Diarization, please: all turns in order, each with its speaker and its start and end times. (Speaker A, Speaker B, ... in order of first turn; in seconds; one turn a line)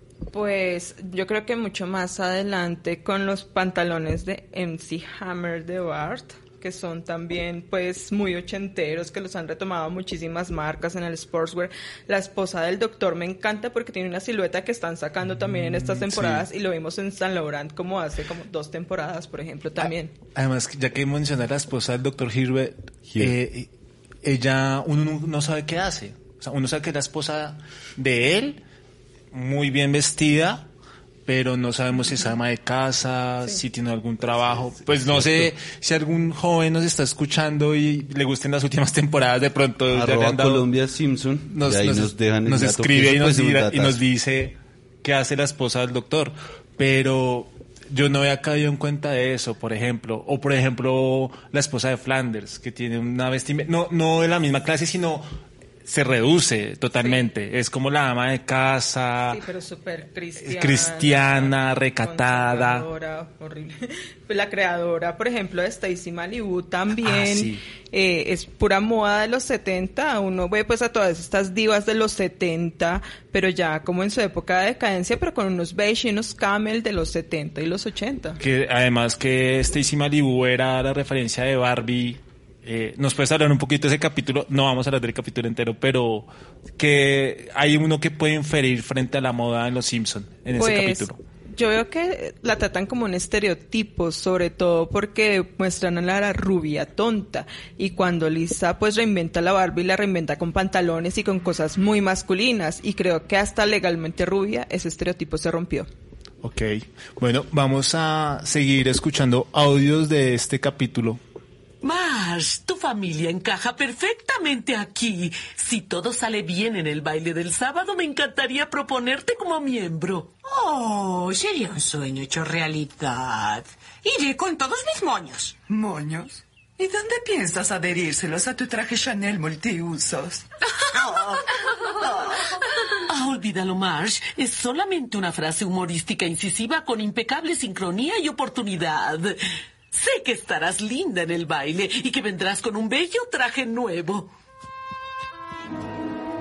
Speaker A: 0.3-20.1
Speaker B: 15.3-16.4
Speaker B: 19.8-23.7
Speaker C: 23.1-23.3
Speaker B: 24.2-28.6
Speaker B: 29.3-30.7
Speaker B: 31.2-40.6
Speaker C: 34.4-35.5
Speaker C: 39.9-44.0
Speaker B: 41.5-55.3
Speaker B: 55.9-59.4
Speaker A: 57.0-57.2
Speaker A: 59.3-78.4
Speaker B: 60.4-62.9
Speaker B: 67.0-67.6
Speaker B: 78.4-91.2
Speaker A: 90.5-105.9
Speaker B: 106.4-111.2
Speaker D: 111.8-120.4
Speaker E: 120.6-125.5
Speaker F: 125.7-130.5
Speaker D: 133.1-139.3
Speaker D: 139.9-144.3